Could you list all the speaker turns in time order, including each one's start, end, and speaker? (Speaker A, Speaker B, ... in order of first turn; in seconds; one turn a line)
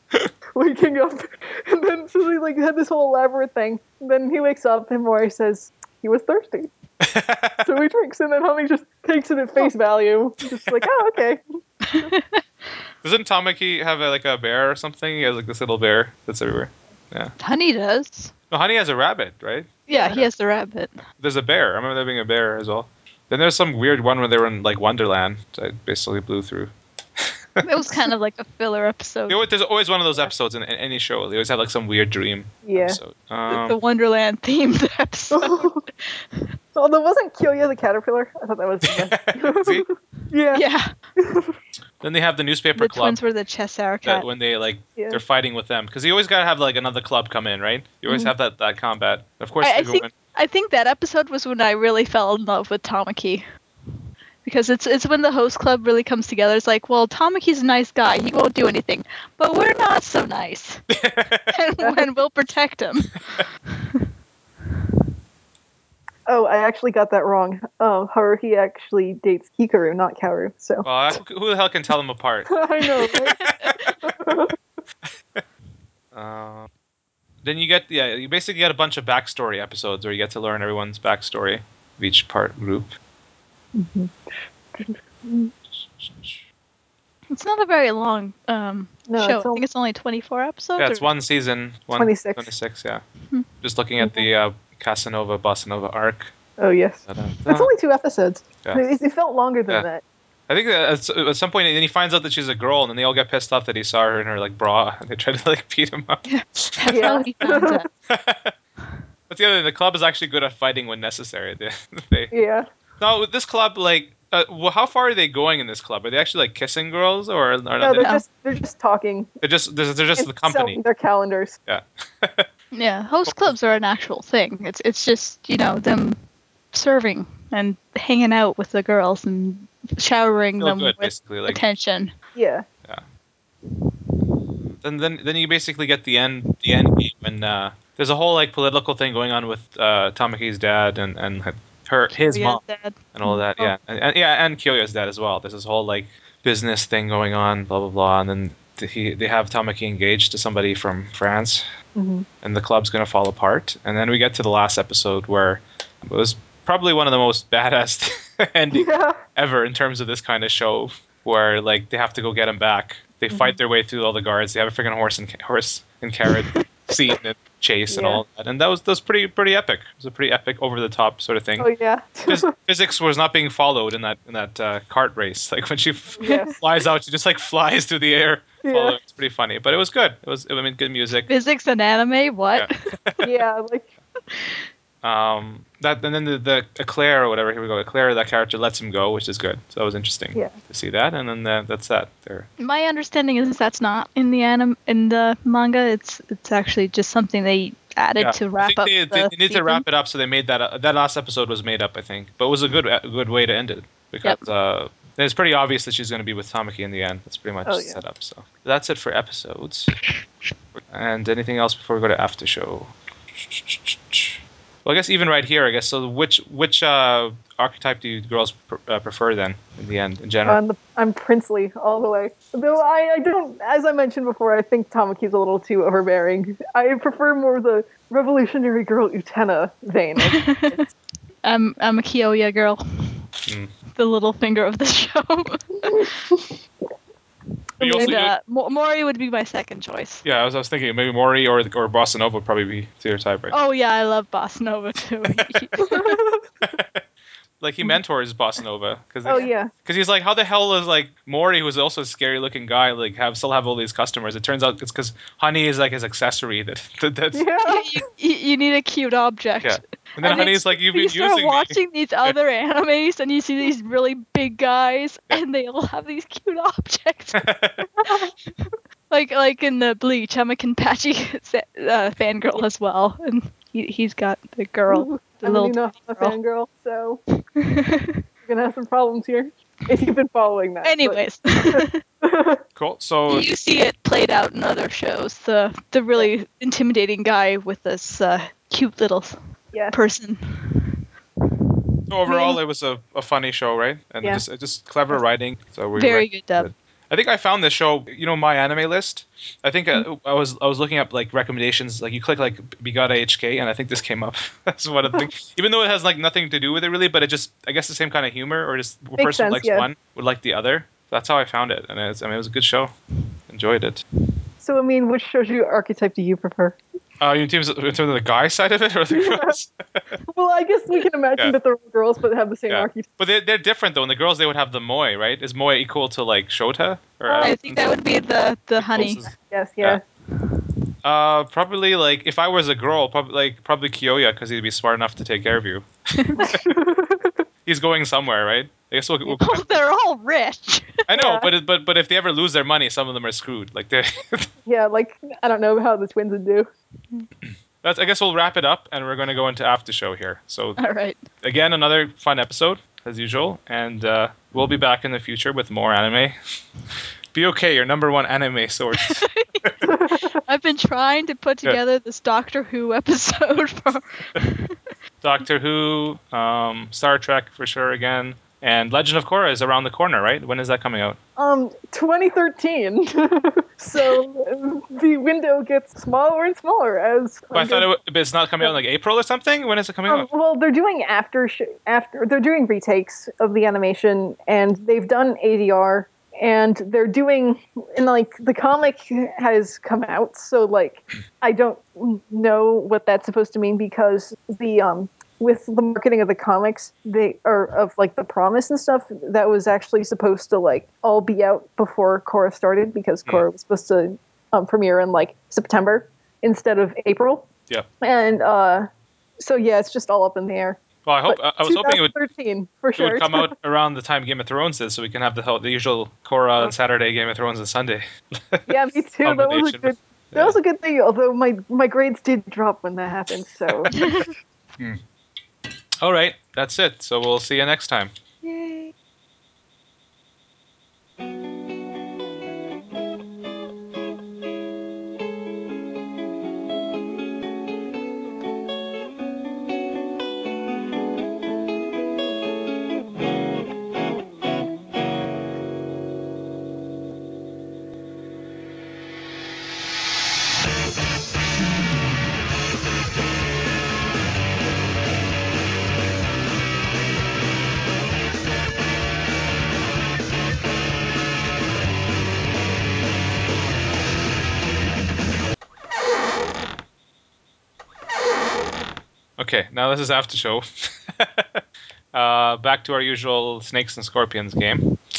Speaker A: 0.5-6.7
Speaker B: 7.0-7.7
Speaker A: 7.6-11.4
Speaker C: 11.8-12.4
Speaker B: 13.0-17.3
Speaker C: 17.4-18.3
Speaker B: 18.5-20.2
Speaker C: 19.9-21.0
Speaker B: 21.2-27.6
Speaker C: 27.6-29.4
Speaker B: 29.3-33.8
Speaker A: 32.6-33.0
Speaker C: 33.5-36.5
Speaker A: 35.3-35.8
Speaker A: 36.7-40.6
Speaker B: 38.9-39.9
Speaker C: 40.5-40.9
Speaker A: 41.2-41.6
Speaker B: 42.0-43.2
Speaker C: 42.8-44.2
Speaker B: 44.0-50.1
Speaker A: 45.0-45.2
Speaker A: 48.1-48.3
Speaker C: 49.6-53.4
Speaker C: 54.4-60.8
Speaker B: 60.9-61.5
Speaker C: 61.5-63.2
Speaker A: 66.3-71.2
Speaker B: 70.8-73.9
Speaker A: 72.5-73.4
Speaker C: 73.3-73.9
Speaker A: 74.0-74.5
Speaker B: 76.1-76.7
Speaker B: 77.4-83.0
Speaker A: 83.7-85.5
Speaker B: 85.7-86.4
Speaker C: 87.3-91.1
Speaker A: 89.1-89.6
Speaker B: 90.8-93.0
Speaker A: 91.9-92.5
Speaker B: 93.6-96.3
Speaker A: 94.0-94.3
Speaker A: 96.6-100.0
Speaker B: 97.1-97.7
Speaker B: 100.5-106.2
Speaker C: 106.2-107.9
Speaker A: 106.9-107.8
Speaker B: 108.1-108.5
Speaker B: 109.3-112.3
Speaker A: 112.3-112.7
Speaker B: 113.0-118.1
Speaker A: 117.8-119.3
Speaker C: 118.0-118.2
Speaker B: 119.4-120.8
Speaker A: 120.2-121.6
Speaker B: 121.7-122.5
Speaker C: 122.7-126.2
Speaker B: 123.3-123.5
Speaker C: 126.7-132.1
Speaker B: 130.6-131.6
Speaker A: 132.3-132.6
Speaker B: 134.8-142.6
Speaker C: 142.1-142.9
Speaker B: 143.1-151.6
Speaker A: 143.2-143.7
Speaker A: 151.9-152.3
Speaker B: 152.4-171.7
Speaker A: 158.7-159.2
Speaker A: 163.3-163.6
Speaker A: 167.9-168.2
Speaker A: 171.6-172.5
Speaker B: 172.2-181.3
Speaker A: 176.2-176.6
Speaker A: 178.6-179.0
Speaker C: 181.3-182.7
Speaker B: 182.5-183.2
Speaker A: 183.2-183.9
Speaker C: 184.3-184.6
Speaker B: 185.0-192.5
Speaker C: 192.6-199.8
Speaker B: 198.2-209.9
Speaker A: 207.6-208.0
Speaker B: 210.8-220.6
Speaker A: 220.4-230.8
Speaker C: 230.2-230.8
Speaker C: 231.4-233.2
Speaker C: 233.9-236.1
Speaker B: 237.8-238.3
Speaker A: 237.8-238.2
Speaker C: 237.8-240.2
Speaker B: 240.2-243.5
Speaker C: 243.5-246.2
Speaker A: 245.8-246.4
Speaker B: 246.6-247.0
Speaker B: 247.6-257.4
Speaker A: 249.2-249.7
Speaker A: 257.3-257.9
Speaker C: 257.6-267.4
Speaker B: 259.6-262.4
Speaker B: 267.3-267.9
Speaker A: 268.0-268.3
Speaker C: 268.6-276.4
Speaker A: 274.9-277.2
Speaker C: 277.6-278.2
Speaker A: 278.4-282.6
Speaker C: 280.8-282.0
Speaker B: 282.8-283.5
Speaker C: 283.3-289.4
Speaker C: 289.9-290.9
Speaker B: 292.1-312.9
Speaker C: 296.0-296.7
Speaker A: 309.2-309.9
Speaker B: 313.5-314.0
Speaker A: 314.6-316.8
Speaker B: 317.2-320.2
Speaker A: 319.1-319.6
Speaker A: 320.3-323.1
Speaker B: 322.7-327.8
Speaker A: 327.3-327.5
Speaker C: 327.4-329.2
Speaker B: 328.8-330.0
Speaker A: 329.0-330.0
Speaker B: 331.0-335.9
Speaker C: 336.2-336.4
Speaker A: 336.4-337.4
Speaker B: 337.6-339.8
Speaker C: 339.3-341.0
Speaker B: 341.1-344.5
Speaker A: 341.1-341.5
Speaker A: 344.6-346.7
Speaker B: 347.4-350.8
Speaker C: 350.8-351.2
Speaker B: 351.4-356.4
Speaker B: 357.3-359.7
Speaker C: 359.0-364.8
Speaker A: 359.9-360.4
Speaker B: 365.2-371.2
Speaker A: 371.4-377.9
Speaker B: 377.5-380.3
Speaker A: 380.1-407.5
Speaker A: 408.0-408.9
Speaker A: 409.4-413.5
Speaker B: 411.1-412.1
Speaker B: 413.0-420.6
Speaker A: 418.7-424.1
Speaker C: 423.9-424.2
Speaker B: 426.0-428.1
Speaker B: 469.4-471.6
Speaker B: 472.1-474.9